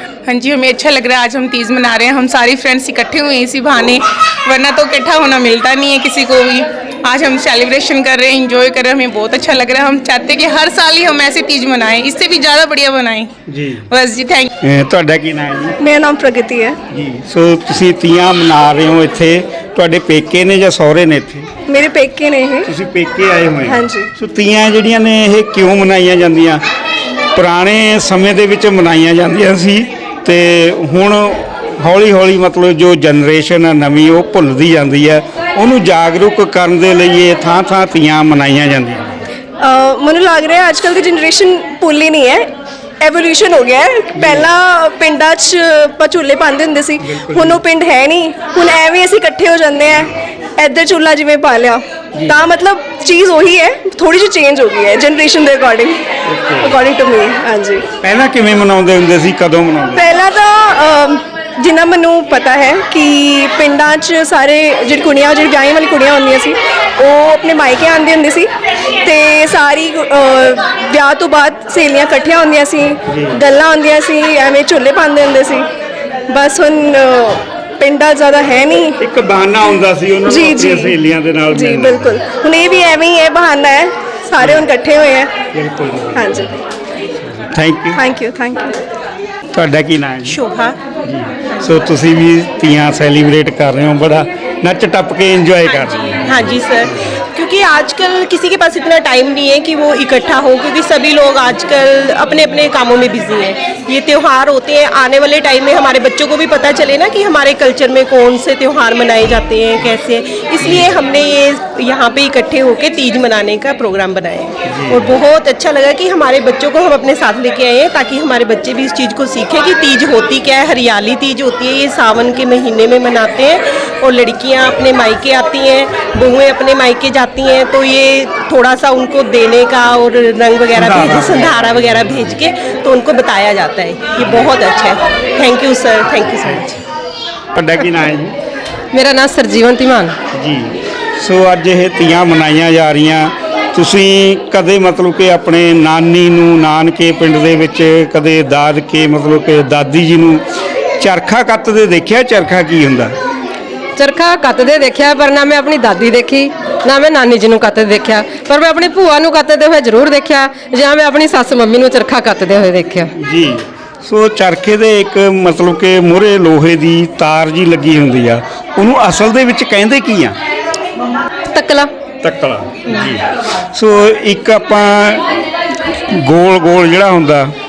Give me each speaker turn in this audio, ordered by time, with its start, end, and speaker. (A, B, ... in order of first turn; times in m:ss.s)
0:00.2-0:13.3 A
0:13.5-0:13.9 B
0:13.9-0:14.5 A
0:14.6-0:15.8 B
0:15.8-0:16.8 C
0:16.9-0:21.5 B
0:21.7-0:22.7 C
0:22.7-0:26.6 B
0:23.6-0:24.1 C
0:27.3-0:39.1 B
0:39.6-0:42.5 C
0:43.0-0:56.0 C
0:44.2-0:44.5 B
0:47.0-0:47.6 B
0:56.2-0:56.8 B
0:56.6-0:57.9 C
0:58.0-1:00.1 B
1:00.0-1:15.7 C
1:13.1-1:13.4 B
1:16.3-1:19.0 C
1:19.0-1:22.2 B
1:20.2-1:21.0 C
1:21.5-1:25.4 C
1:24.4-1:24.7 B
1:25.5-1:26.2 B
1:26.2-1:26.5 C
1:27.2-1:28.0 B
1:27.9-1:28.8 C
1:29.5-1:30.4 B
1:30.3-1:30.8 D
1:31.0-1:36.5 B
1:35.7-2:16.8 D
1:50.6-1:50.9 B
1:54.7-1:55.0 B
2:10.8-2:12.4 B
2:14.2-2:14.6 B
2:17.6-2:18.4 B
2:18.9-2:20.2 E
2:20.3-2:30.4 B
2:31.0-2:33.2 B
2:34.0-2:43.1 E
2:43.2-2:50.4 B
2:51.5-2:51.9 E
2:52.2-2:55.3 B
2:56.1-2:57.5 B